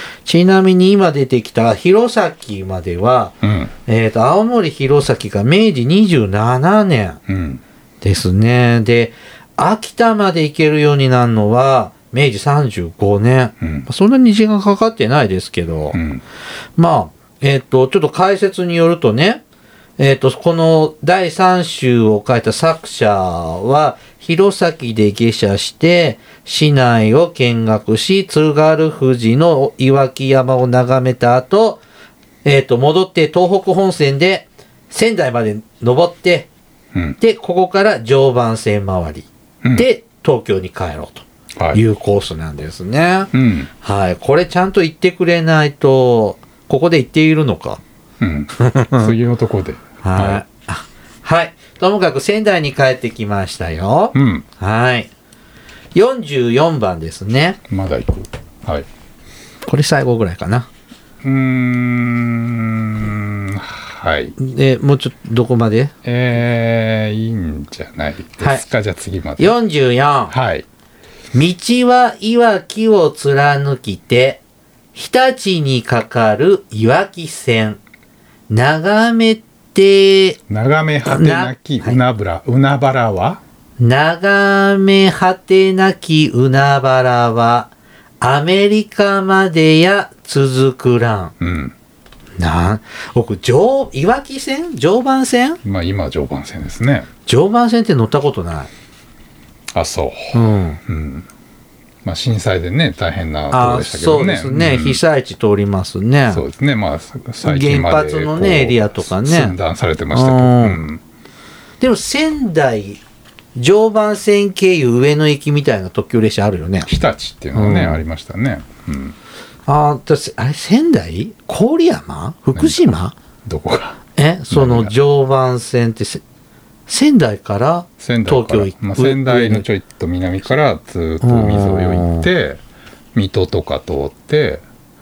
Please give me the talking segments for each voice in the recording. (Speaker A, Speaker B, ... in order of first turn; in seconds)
Speaker A: 0.3-3.4, 3.9-7.2, 8.0-16.0, 16.8-19.4, 20.0-31.8, 32.4-36.5, 37.2-47.8, 48.6-49.1, 50.0-55.1, 56.0-57.6, 59.7-60.7, 64.4-65.9, 69.4-70.3, 71.3-74.4, 75.0-77.8, 78.5-80.4, 81.0-82.0, 83.8-91.3, 92.4-95.6, 97.3-98.7, 100.3-100.8, 103.5-106.4, 107.4-109.6, 110.1-110.8, 111.8-113.0, 113.6-116.9, 117.5-118.0, 119.7-123.2, 124.2-126.2, 126.9-129.7, 131.2-132.3
Speaker B: 3.4-3.7, 7.3-7.6, 13.6-13.9, 15.9-16.2, 43.3-43.7, 48.2-50.4, 54.1-54.5, 57.7-58.9, 61.2-64.3, 66.0-69.5, 70.3-70.7, 80.5-83.4, 91.4-91.7, 95.6-97.1, 99.7-101.3, 102.0-105.0, 106.3-111.0, 116.9-119.2, 122.6-122.9, 123.5-124.9, 128.0-132.6, 133.1-134.6